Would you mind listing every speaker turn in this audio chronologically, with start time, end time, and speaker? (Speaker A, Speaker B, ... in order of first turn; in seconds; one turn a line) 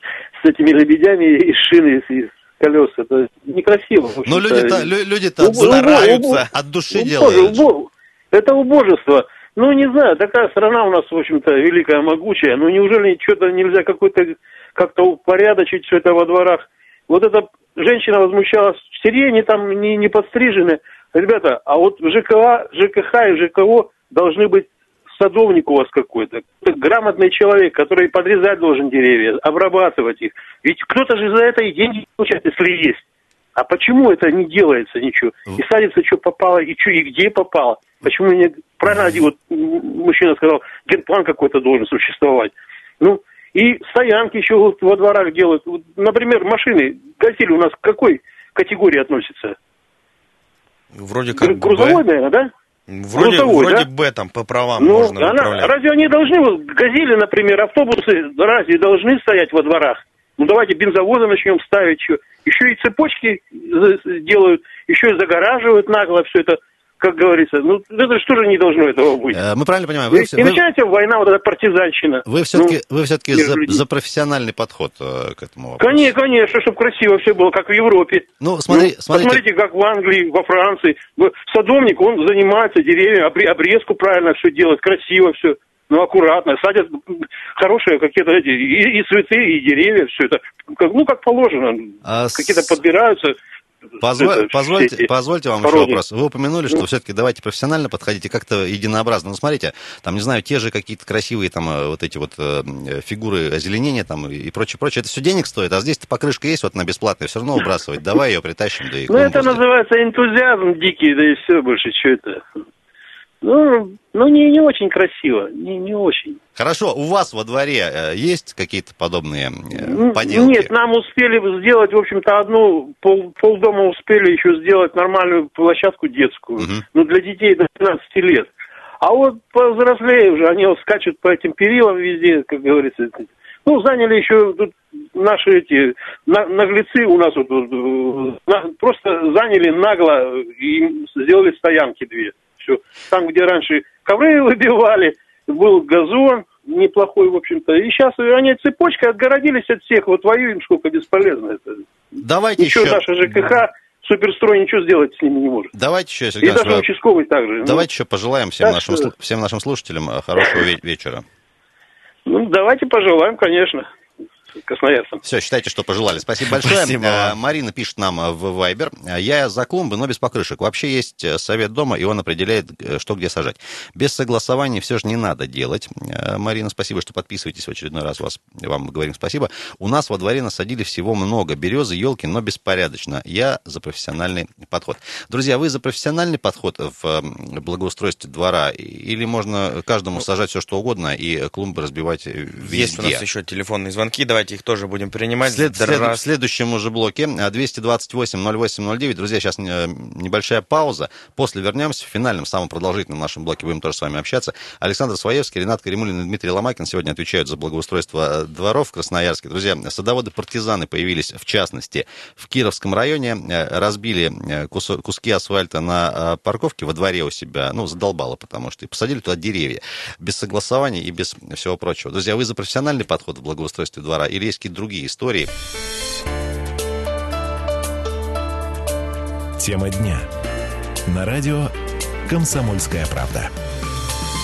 Speaker A: 0.4-4.9
Speaker B: 4.2-7.6
Speaker A: 5.4-33.0
Speaker C: 5.6-6.3
Speaker A: 33.5-49.5
Speaker C: 50.9-52.0
Speaker A: 51.4-52.5
Speaker C: 52.9-55.7
Speaker A: 53.1-53.9
Speaker A: 54.8-69.4
Speaker B: 69.3-70.6
Speaker A: 70.1-72.8
Speaker B: 72.2-76.1
Speaker A: 73.3-73.8
Speaker A: 75.8-86.9
Speaker B: 78.4-79.4
Speaker A: 87.6-93.3
Speaker B: 92.0-92.7
Speaker B: 94.0-109.6
Speaker A: 94.1-95.1
Speaker A: 95.6-96.0
Speaker A: 109.1-112.4
Speaker A: 113.4-116.3
Speaker B: 116.6-120.7
Speaker A: 119.8-128.5
Speaker B: 126.6-126.8
Speaker A: 129.0-151.8
Speaker B: 152.2-153.0
Speaker A: 152.6-155.7
Speaker B: 155.7-156.9
Speaker A: 156.4-157.8
Speaker B: 157.6-161.2
Speaker A: 158.6-159.1
Speaker A: 162.3-163.8
Speaker A: 164.6-165.2
Speaker B: 165.2-193.2
Speaker C: 166.6-167.3
Speaker C: 192.6-196.2
Speaker B: 195.4-225.5
Speaker D: 229.6-230.2
Speaker D: 231.1-231.7
Speaker D: 232.3-233.5